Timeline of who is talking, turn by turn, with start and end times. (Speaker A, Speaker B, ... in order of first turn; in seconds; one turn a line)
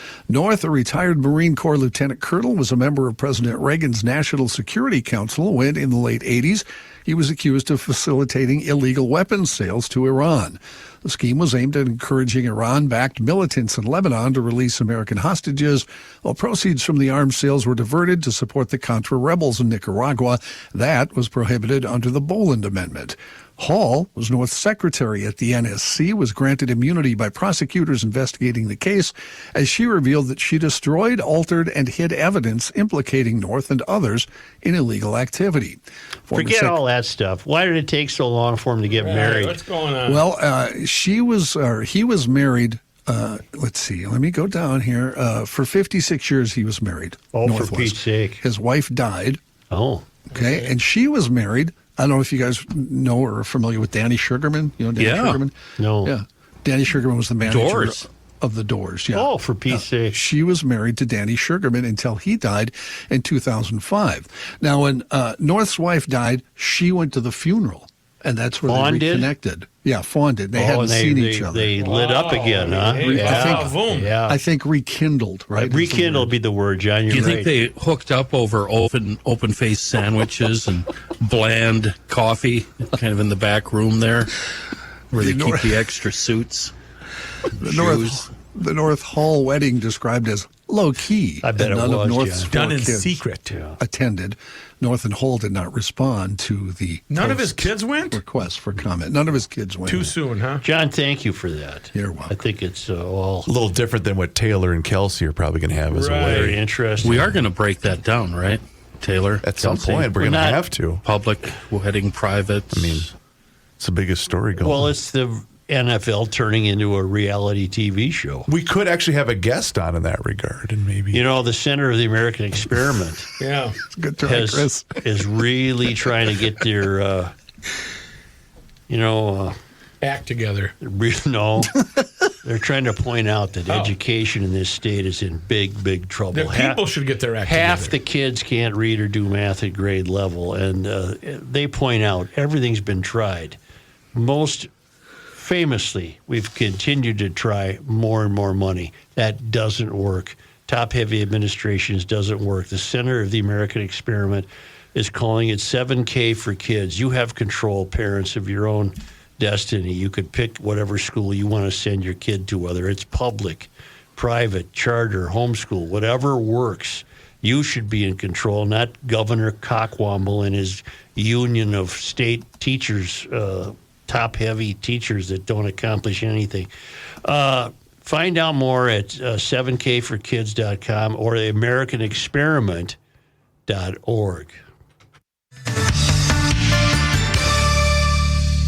Speaker A: 0.3-36.8
Speaker B: 36.3-39.6
Speaker C: 38.9-40.2
Speaker A: 40.0-49.4
Speaker B: 47.3-48.4
Speaker B: 49.7-50.0
Speaker A: 50.3-71.7
Speaker D: 55.0-55.4
Speaker B: 55.8-56.1
Speaker D: 57.4-58.0
Speaker B: 59.1-60.2
Speaker B: 68.7-69.3
Speaker B: 70.5-74.4
Speaker C: 71.8-74.1
Speaker D: 73.0-73.6
Speaker A: 73.1-76.3
Speaker B: 75.6-77.5
Speaker D: 77.1-84.3
Speaker D: 85.1-86.7
Speaker A: 85.1-85.8
Speaker A: 87.6-93.2
Speaker D: 87.6-88.2
Speaker B: 91.4-92.5
Speaker C: 92.5-93.6
Speaker B: 93.5-93.8
Speaker A: 93.8-100.1
Speaker C: 97.1-98.2
Speaker C: 99.8-100.7
Speaker B: 100.6-103.5
Speaker A: 101.9-102.3
Speaker E: 103.5-106.6
Speaker C: 105.9-106.4
Speaker B: 106.2-107.4
Speaker D: 107.0-109.5
Speaker E: 109.4-111.0
Speaker B: 109.6-110.6
Speaker D: 111.0-113.1
Speaker E: 112.7-113.1
Speaker E: 113.8-114.9
Speaker B: 114.6-118.5
Speaker E: 118.5-121.2
Speaker B: 121.1-123.3
Speaker C: 123.4-123.8
Speaker A: 123.9-124.9
Speaker B: 124.2-127.3
Speaker B: 128.9-129.6
Speaker C: 130.0-130.7
Speaker B: 130.8-131.9
Speaker B: 132.4-136.8
Speaker C: 133.7-133.9
Speaker C: 136.3-138.0
Speaker B: 137.4-143.6
Speaker B: 144.1-144.7
Speaker B: 145.3-176.7
Speaker B: 177.2-183.0
Speaker B: 183.7-184.6